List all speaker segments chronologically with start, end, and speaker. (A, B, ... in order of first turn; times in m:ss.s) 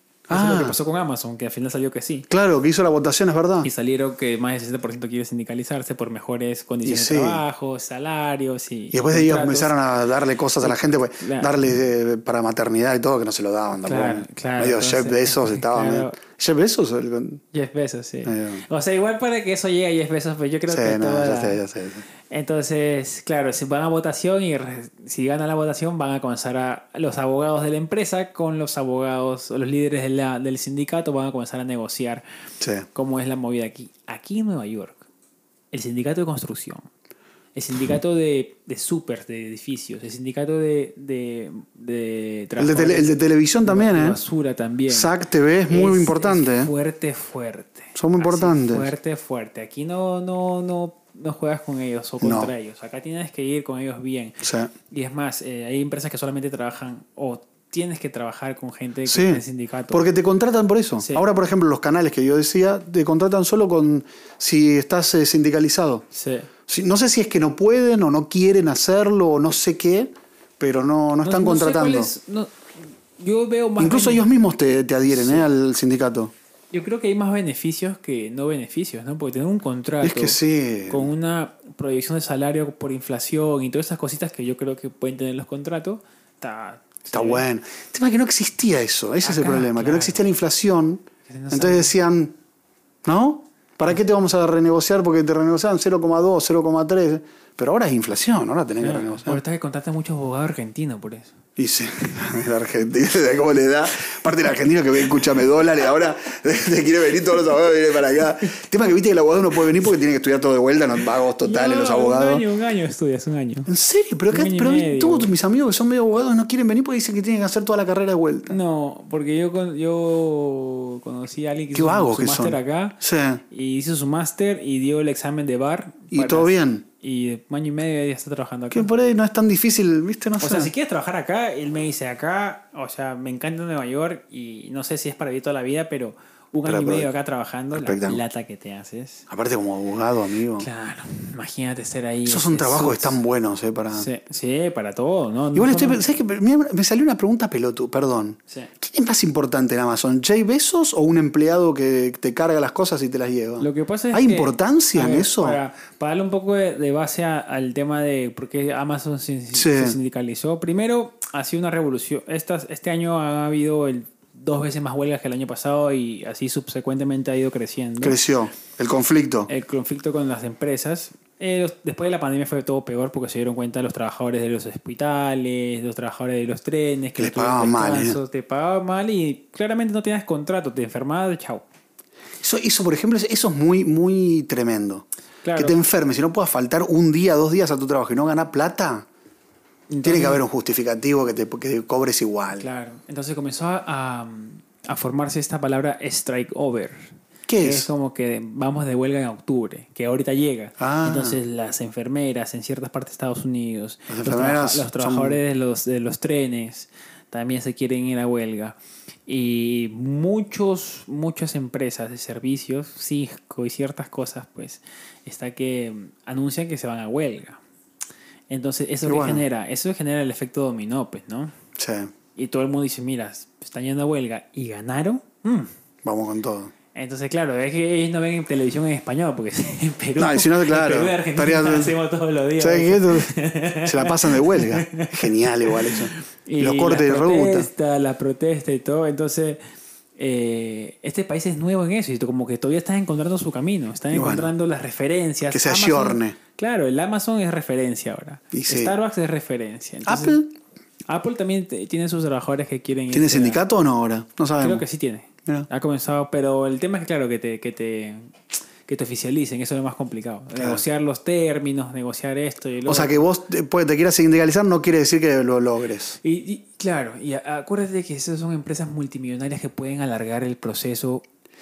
0:00.3-0:00.8 A
0:00.3-0:02.3 B
0:02.3-0:03.7 A
0:03.6-0:09.7 B
0:06.8-0:07.4 A
0:08.9-0:17.4 A
0:10.6-0:11.6 B
0:13.8-0:16.2 B
0:17.5-0:21.6 B
0:18.2-0:18.6 A
0:20.7-0:22.0 A
0:22.3-0:32.2 B
0:32.6-0:32.8 A
0:32.9-0:35.0 B
0:35.7-0:36.9 B
0:37.5-0:45.1 B
0:42.6-0:44.2 A
0:44.9-0:46.7 A
0:45.7-0:54.4 B
0:47.9-0:48.9 A
0:52.2-0:52.5 A
0:54.4-0:54.7 A
0:54.9-1:00.0 B
0:59.1-1:06.0 A
1:01.0-1:01.2 B
1:06.1-1:06.5 B
1:06.7-1:12.1 A
1:11.2-1:14.2 B
1:13.8-1:16.3 A
1:15.0-1:15.4 B
1:16.7-1:27.4 B
1:20.0-1:21.1 A
1:27.1-1:32.4 A
1:29.2-1:30.2 B
1:31.3-1:31.9 B
1:33.0-1:39.4 A
1:38.8-1:41.3 B
1:41.6-1:52.4 A
1:51.4-1:53.7 B
1:53.7-1:58.6 A
1:54.3-1:55.3 B
1:58.5-2:03.0 B
2:01.7-2:03.4 A
2:03.5-2:08.9 B
2:06.1-2:06.8 A
2:08.7-2:10.7 A
2:10.4-2:19.2 B
2:16.6-2:17.1 A
2:17.7-2:18.2 A
2:19.3-2:20.7 A
2:20.6-2:23.2 B
2:22.2-2:24.1 A
2:23.9-2:26.0 B
2:25.5-2:35.6 A
2:33.6-2:48.2 B
2:39.5-2:40.0 A
2:48.0-2:49.5 A
2:49.5-3:01.6 B
2:57.2-2:58.2 A
3:02.4-3:09.1 A
3:05.4-3:05.8 B
3:09.9-3:10.4 B
3:10.0-3:12.6 A
3:12.5-3:37.6 B
3:17.5-3:17.9 A
3:20.8-3:21.4 A
3:24.1-3:25.4 A
3:38.5-3:41.5 B
3:39.0-3:39.4 A
3:41.8-3:42.1 A
3:42.4-3:45.7 B
3:46.0-3:46.7 A
3:46.9-3:59.6 B
3:50.2-3:51.9 A
3:52.6-3:53.3 A
3:53.8-3:57.7 A
4:00.2-4:10.4 B
4:04.1-4:04.5 A
4:05.5-4:06.4 A
4:08.5-4:08.9 A
4:10.0-4:10.5 A
4:11.1-4:13.6 B
4:13.1-4:14.8 A
4:14.6-4:23.2 B
4:22.8-4:26.2 A
4:26.2-4:31.2 B